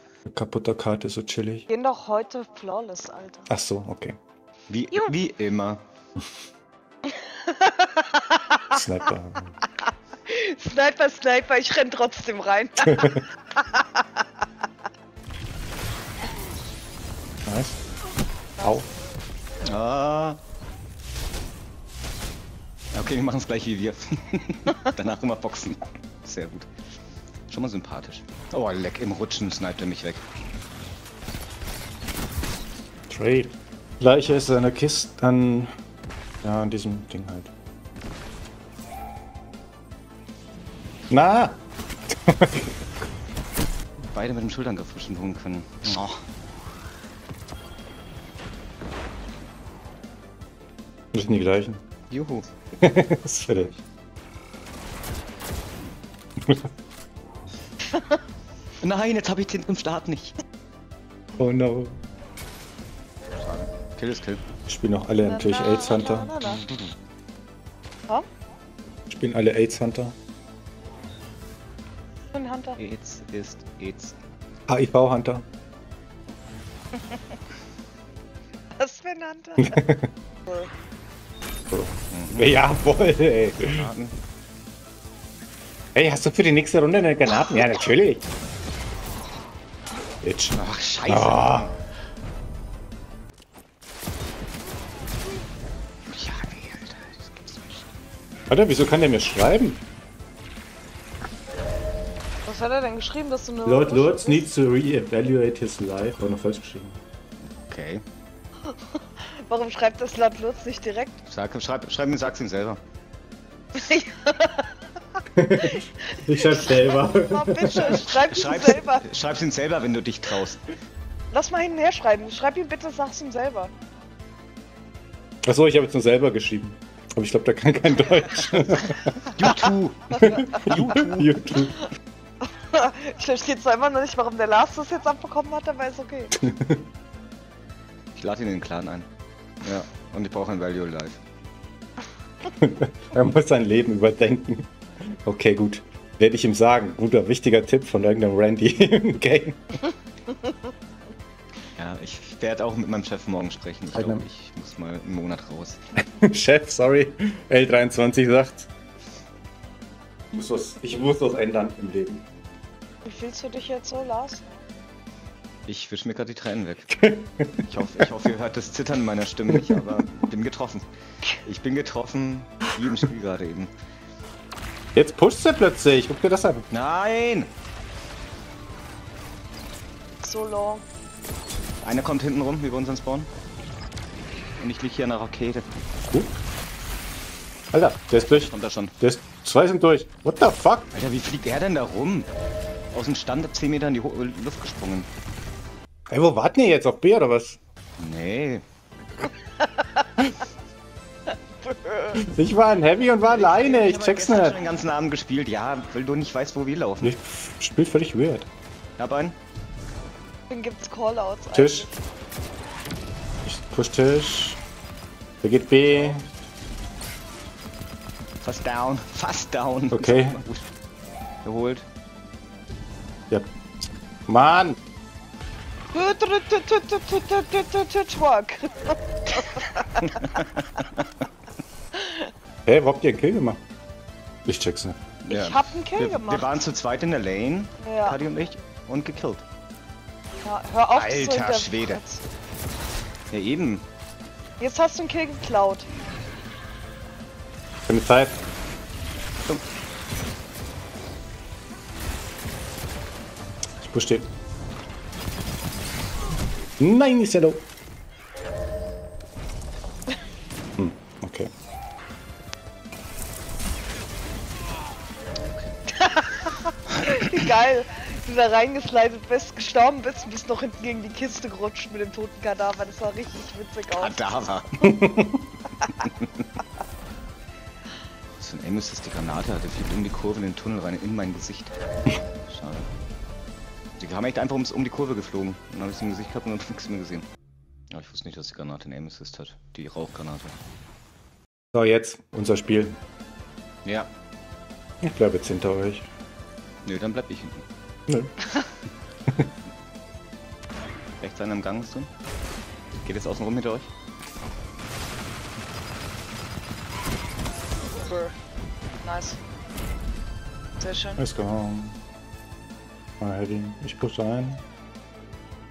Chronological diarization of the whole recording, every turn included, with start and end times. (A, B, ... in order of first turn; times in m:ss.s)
0:00.2-0:01.7 A
0:01.7-0:03.5 B
0:03.5-0:04.2 A
0:04.7-0:05.8 C
0:07.0-0:08.8 B
0:08.7-0:09.6 A
0:10.3-0:14.2 B
0:12.9-0:13.2 A
0:17.4-0:17.8 A
0:18.6-0:18.9 A
0:19.6-0:20.4 C
0:22.9-0:26.7 C
0:27.5-0:30.2 C
0:33.1-0:35.7 A
0:36.4-0:37.5 A
0:41.1-0:41.6 A
0:42.1-0:42.7 A
0:44.1-0:46.2 C
0:51.1-0:51.8 A
0:52.1-0:52.4 C
0:52.8-0:53.8 A
0:57.9-0:58.2 B
0:58.8-1:00.4 C
1:01.4-1:02.0 A
1:03.4-1:04.4 C
1:04.7-1:06.3 A
1:05.2-1:06.6 B
1:06.4-1:06.9 C
1:09.1-1:10.1 A
1:12.3-1:12.8 B
1:12.8-1:14.1 C
1:14.7-1:15.4 A
1:18.8-1:19.8 B
1:19.6-1:20.1 A
1:20.5-1:20.7 B
1:21.7-1:23.9 A
1:22.1-1:22.7 C
1:23.5-1:24.2 C
1:25.9-1:28.2 A
1:30.2-1:30.6 A
1:30.5-1:31.7 C
1:31.1-1:31.7 A
1:36.1-1:37.9 C
1:38.5-1:39.8 A
1:42.4-1:44.5 B
1:43.6-1:47.0 A
1:47.4-1:48.0 C
1:48.7-1:51.2 B
1:51.2-1:52.8 C
1:53.7-1:54.7 B
1:55.3-1:58.1 A
1:55.6-1:59.1 B
1:57.8-2:00.6 C
2:01.3-2:03.7 B
2:05.4-2:09.3 A
2:09.3-2:11.4 C
2:10.2-2:11.8 A
2:12.4-2:16.4 B
2:16.4-2:16.8 A
2:18.2-2:19.1 C
2:19.6-2:21.2 C
2:22.6-2:24.7 A
2:25.2-2:29.8 A
2:31.8-2:35.8 C
2:33.9-2:34.2 A
2:36.2-2:38.7 A
2:40.3-2:42.2 A
2:43.0-2:44.4 B
2:45.6-2:46.9 C
2:46.9-2:47.7 A
2:47.6-2:50.8 C
2:49.5-2:50.0 A
2:51.4-2:53.7 C
2:54.9-2:56.7 A
2:56.7-2:57.5 C
3:00.2-3:00.8 B
3:01.8-3:03.3 C
3:04.6-3:05.7 C
3:07.7-3:10.9 A
3:08.1-3:08.9 C
3:10.9-3:12.3 C
3:12.9-3:15.1 C
3:16.1-3:17.6 A
3:18.0-3:18.6 C
3:19.6-3:20.3 B
3:21.3-3:22.2 B
3:22.1-3:24.6 A
3:23.3-3:27.1 C
3:27.0-3:28.5 A
3:29.0-3:29.4 C
3:30.5-3:31.9 B
3:31.5-3:31.9 A
3:33.4-3:34.6 A
3:35.4-3:36.2 A
3:38.4-3:40.7 C
3:39.9-3:40.4 A
3:41.4-3:41.8 C
3:44.3-3:44.8 A
3:45.9-3:50.4 B
3:49.5-3:51.0 C
3:51.9-3:52.3 B
3:52.6-3:53.6 A
3:54.4-3:55.0 A
3:55.2-3:59.4 C
3:55.3-3:56.5 B
3:57.8-3:58.2 B
4:00.4-4:02.2 B
4:00.9-4:02.0 C
4:03.3-4:03.8 C
4:04.6-4:05.9 B
4:07.9-4:08.4 A
4:13.8-4:14.3 A
4:16.8-4:17.6 A
4:20.8-4:21.5 A
4:25.9-4:34.4 B
4:33.9-4:34.7 C
4:34.8-4:35.4 A
4:38.4-4:41.7 C
4:42.5-4:42.9 C
4:44.0-4:47.2 C
4:47.9-4:50.6 C
4:51.7-4:53.0 A
4:53.8-4:54.1 C
4:55.0-4:56.1 A
4:56.8-4:57.6 C
4:58.1-4:58.6 A
5:01.2-5:02.1 C
5:03.0-5:03.9 C
5:07.9-5:08.3 B
5:09.0-5:09.4 B
5:10.8-5:11.2 B
5:11.2-5:12.0 A
5:13.2-5:14.6 A